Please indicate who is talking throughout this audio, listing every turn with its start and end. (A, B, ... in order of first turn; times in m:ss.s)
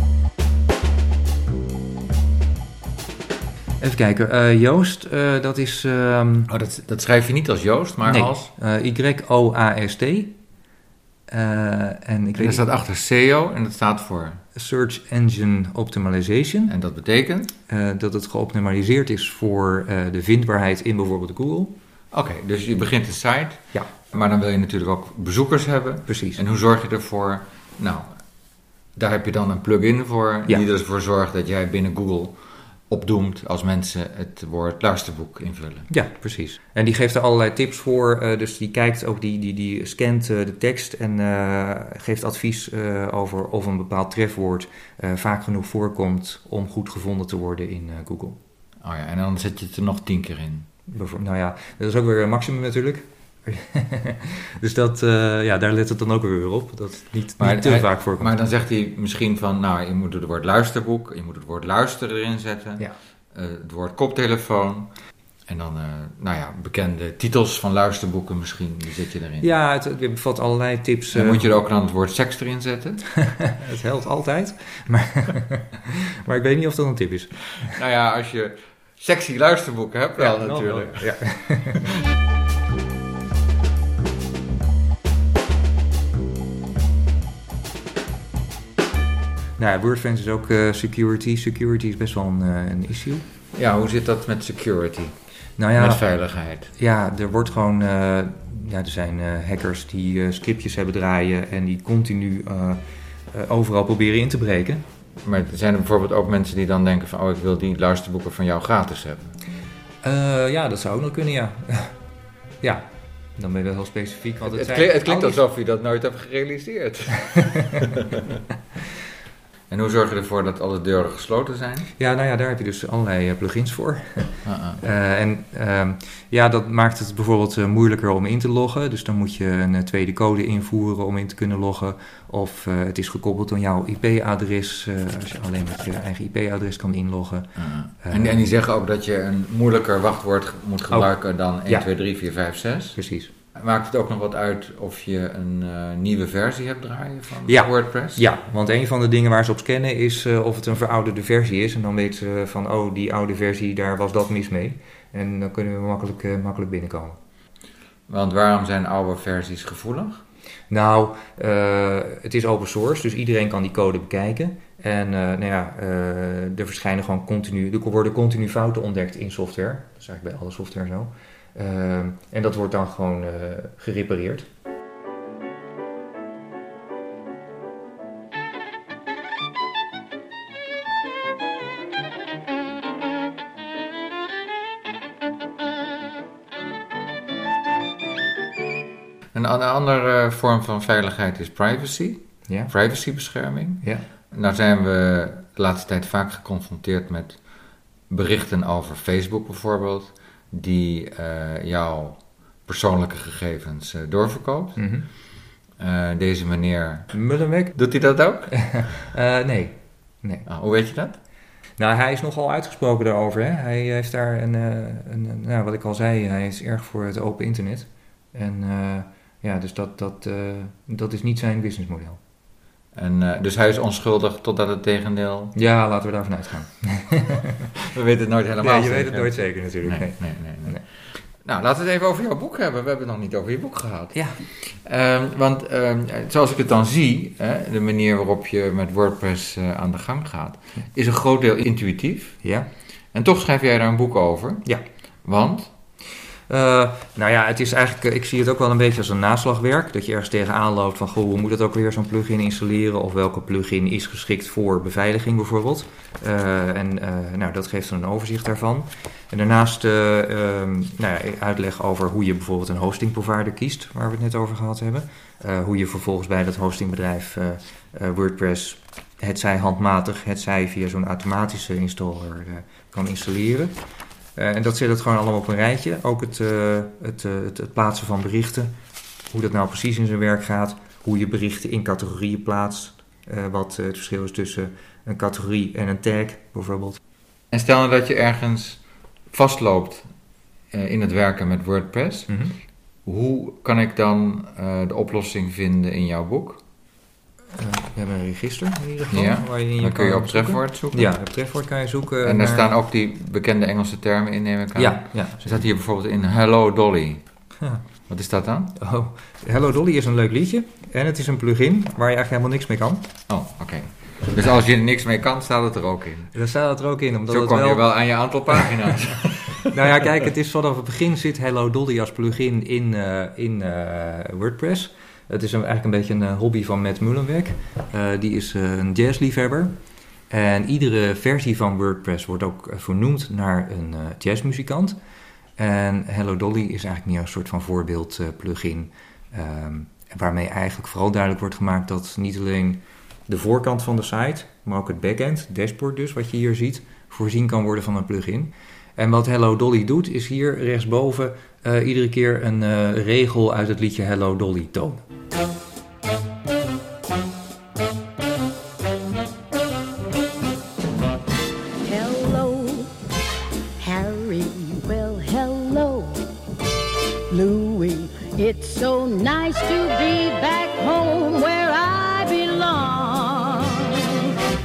0:03.8-0:06.5 A
0:06.5-0:08.5 B
0:08.0-0:10.4 A
0:11.3-0:12.6 A
0:12.4-0:14.4 B
0:14.6-0:16.7 A
0:16.7-0:17.5 B
0:17.7-0:21.8 A
0:22.1-0:28.2 B
0:26.1-0:26.4 A
0:29.0-0:35.9 B
0:35.9-0:48.4 A
0:48.8-0:50.7 B
0:50.9-0:58.3 A
0:57.4-1:04.9 B
1:05.5-1:09.5 B
1:09.4-1:11.5 A
1:11.1-1:13.1 B
1:13.3-1:17.7 A
1:17.7-1:21.1 B
1:20.2-1:22.0 A
1:29.6-1:33.2 A
1:33.5-1:35.2 B
1:35.6-1:36.0 A
1:35.8-1:36.7 B
1:36.7-1:44.8 A
1:45.2-1:49.4 B
1:50.0-1:52.0 A
1:52.6-1:55.4 A
1:54.5-1:58.2 B
1:59.7-2:01.9 B
2:02.0-2:18.5 A
2:04.4-2:04.8 B
2:17.6-2:23.0 B
2:23.0-2:23.3 A
2:23.5-2:28.2 B
2:27.5-2:37.2 A
2:38.1-2:40.2 B
2:40.7-2:54.5 A
3:09.3-3:17.4 B
3:18.1-3:24.8 B
3:24.8-3:25.1 A
3:25.8-3:27.2 B
3:27.1-3:27.8 A
3:27.7-3:28.9 B
3:28.5-3:30.5 A
3:30.5-3:31.2 B
3:31.8-3:42.2 A
3:42.9-3:45.5 B
3:45.6-3:47.7 A
3:47.9-4:02.4 B
3:48.6-3:50.8 A
3:54.2-3:54.4 A
4:02.4-4:02.7 A
4:03.1-4:04.7 B
4:05.2-4:05.7 B
4:06.5-4:33.8 A
4:34.4-4:38.7 A
4:39.3-4:47.0 A
4:47.5-4:50.1 B
4:50.7-4:52.3 B
4:52.3-4:52.6 A
4:53.0-4:56.6 B
4:57.5-5:02.7 A
4:59.1-5:01.1 B
5:02.2-5:07.2 B
5:04.8-5:05.5 A
5:08.1-5:08.7 B
5:08.8-5:13.1 A
5:13.3-5:16.3 B
5:16.3-5:18.0 A
5:17.3-5:19.7 B
5:19.6-5:29.8 A
5:30.3-5:35.0 A
5:35.6-5:55.0 A
6:01.8-6:02.9 C
6:03.8-6:06.2 C
6:07.3-6:14.3 C